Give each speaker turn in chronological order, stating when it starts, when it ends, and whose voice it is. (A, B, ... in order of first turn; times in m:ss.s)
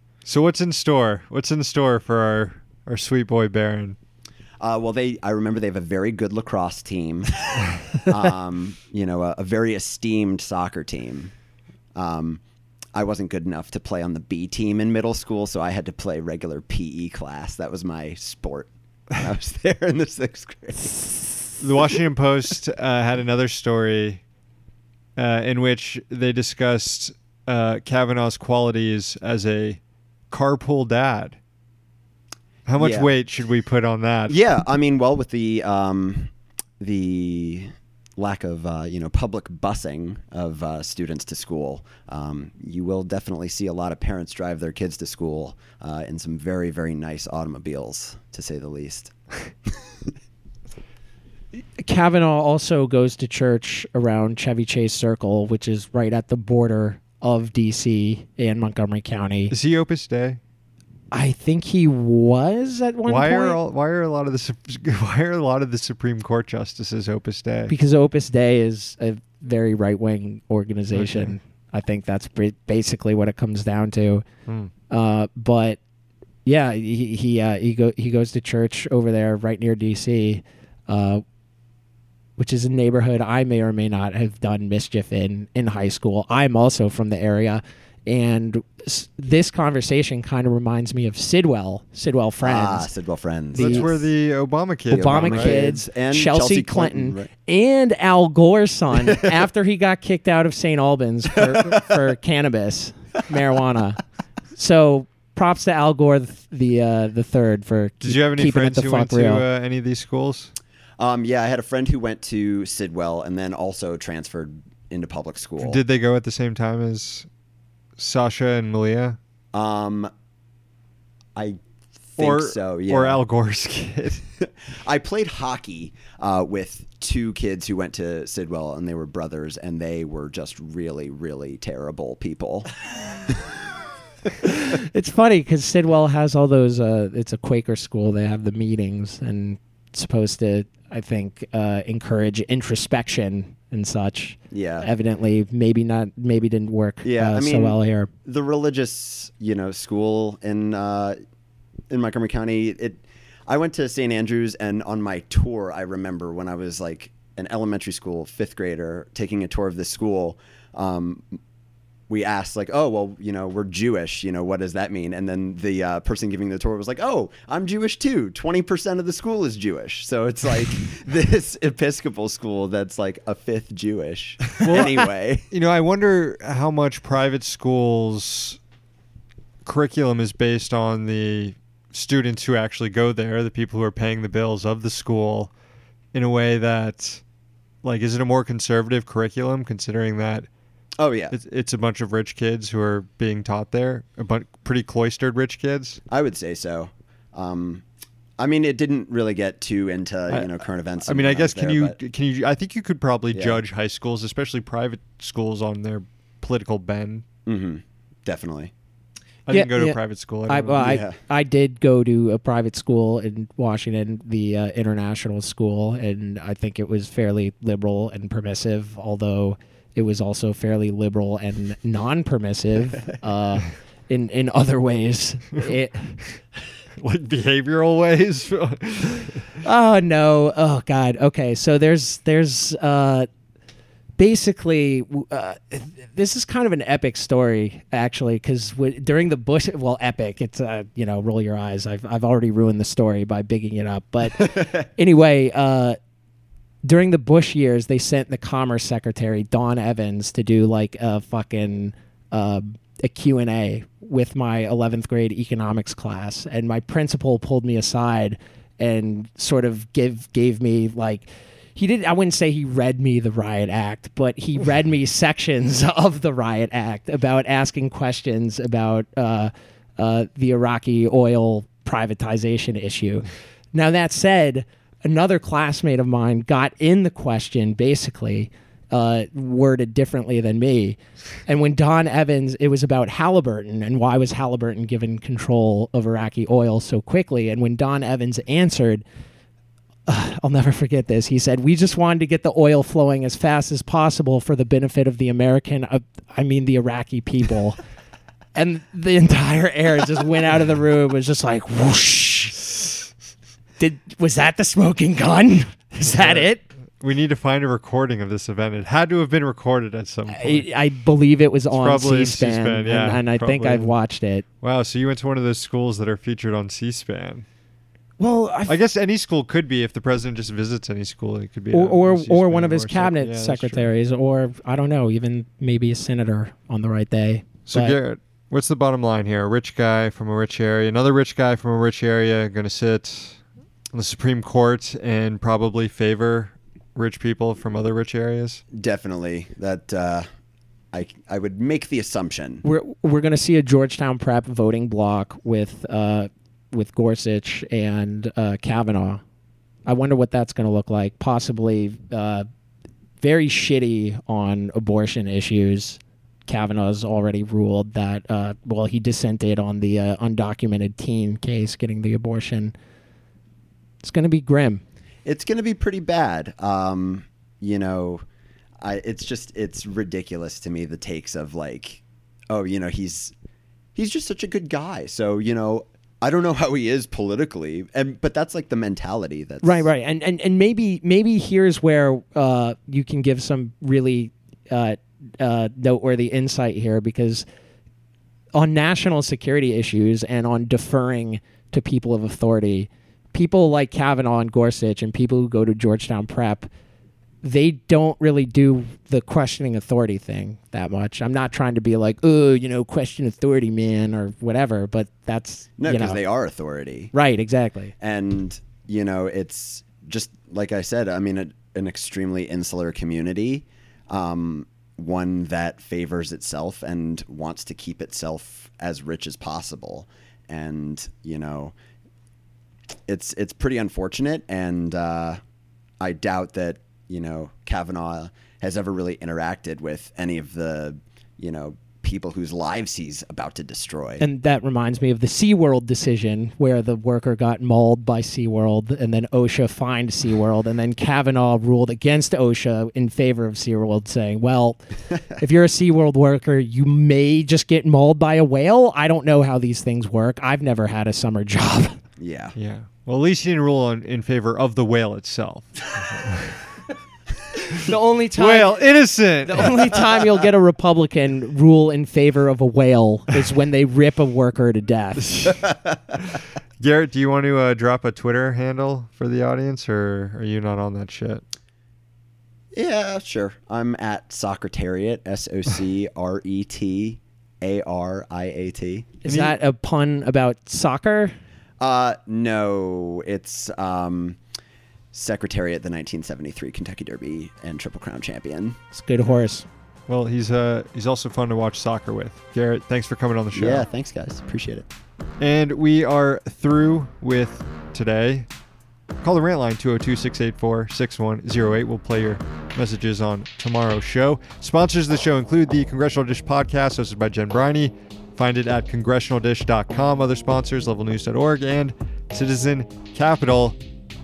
0:00.2-0:04.0 A
0:04.6-0:11.3 B
0:12.0-0:12.4 B
0:12.9-0:21.0 B
0:21.6-0:24.2 A
0:25.2-0:29.8 A
0:30.3-0:31.4 A
0:32.7-0:34.4 A
0:32.8-0:33.1 B
0:34.3-0:49.1 B
0:51.8-0:59.6 C
0:59.5-1:00.4 A
1:01.1-1:03.6 C
1:03.1-1:07.7 A
1:07.7-1:14.2 C
1:10.9-1:11.3 A
1:14.9-1:15.8 C
1:16.4-1:21.2 C
1:22.4-1:32.9 C
1:32.4-1:34.1 B
1:33.6-1:33.9 C
1:33.6-1:35.6 A
1:34.9-1:37.3 B
1:34.9-1:44.0 C
1:44.6-1:49.4 C
1:48.0-1:50.5 A
1:51.0-1:55.8 B
1:55.6-1:57.3 A
1:58.0-1:59.2 A
1:59.5-2:00.1 B
2:02.1-2:03.2 B
2:02.2-2:04.2 A
2:04.4-2:12.7 B
2:14.4-2:28.1 C
2:24.5-2:24.9 B
2:27.0-2:31.2 B
2:31.9-2:41.2 B
2:42.1-2:55.5 B
2:54.6-2:58.6 A
2:59.6-3:05.5 A
3:06.1-3:07.2 A
3:07.8-3:10.5 A
3:11.0-3:11.4 B
3:11.3-3:16.0 A
3:16.1-3:17.8 B
3:18.4-3:22.0 B
3:20.3-3:27.2 A
3:23.3-3:23.6 B
3:27.5-3:28.7 B
3:29.5-3:30.9 A
3:29.5-3:46.2 C
3:30.8-3:31.2 B
3:47.0-3:49.4 A
3:49.6-3:53.3 C
3:54.2-4:06.0 C
4:06.8-4:49.0 C
4:50.1-4:57.8 C
4:58.5-5:02.9 C
5:03.8-5:06.6 C
5:06.0-5:06.5 A
5:07.0-5:10.6 A
5:10.3-5:14.4 C
5:11.7-5:13.9 A
5:14.6-5:17.4 A
5:18.2-5:18.8 C
5:18.7-5:23.9 A
5:21.7-5:28.0 C
5:27.7-5:33.4 A
5:33.9-5:38.6 A
5:38.7-5:40.3 B
5:40.9-5:42.6 B
5:42.6-5:49.2 C
5:49.9-5:52.4 C
5:53.2-6:02.7 C
6:04.0-6:04.8 C
6:05.2-6:08.2 B
6:08.8-6:13.3 B
6:14.0-6:19.9 B
6:19.6-6:27.5 C
6:28.5-6:36.7 C
6:37.4-6:46.2 C
6:45.8-6:47.1 B
6:47.1-6:47.9 C
6:48.0-7:01.8 B
7:03.1-7:05.4 B
7:06.0-7:14.2 B
7:14.2-7:32.0 C
7:32.2-7:32.5 B
7:32.6-7:36.6 A
7:37.8-7:45.6 C
7:38.4-7:39.8 A
7:45.6-7:46.0 B
7:46.8-7:51.4 A
7:52.7-7:59.1 B
7:59.2-8:01.3 C
7:59.2-7:59.6 A
8:01.8-8:04.4 B
8:05.1-8:08.8 B
8:08.9-8:09.7 C
8:10.1-8:13.8 A
8:13.5-8:14.9 B
8:15.4-8:18.5 A
8:19.2-8:33.8 A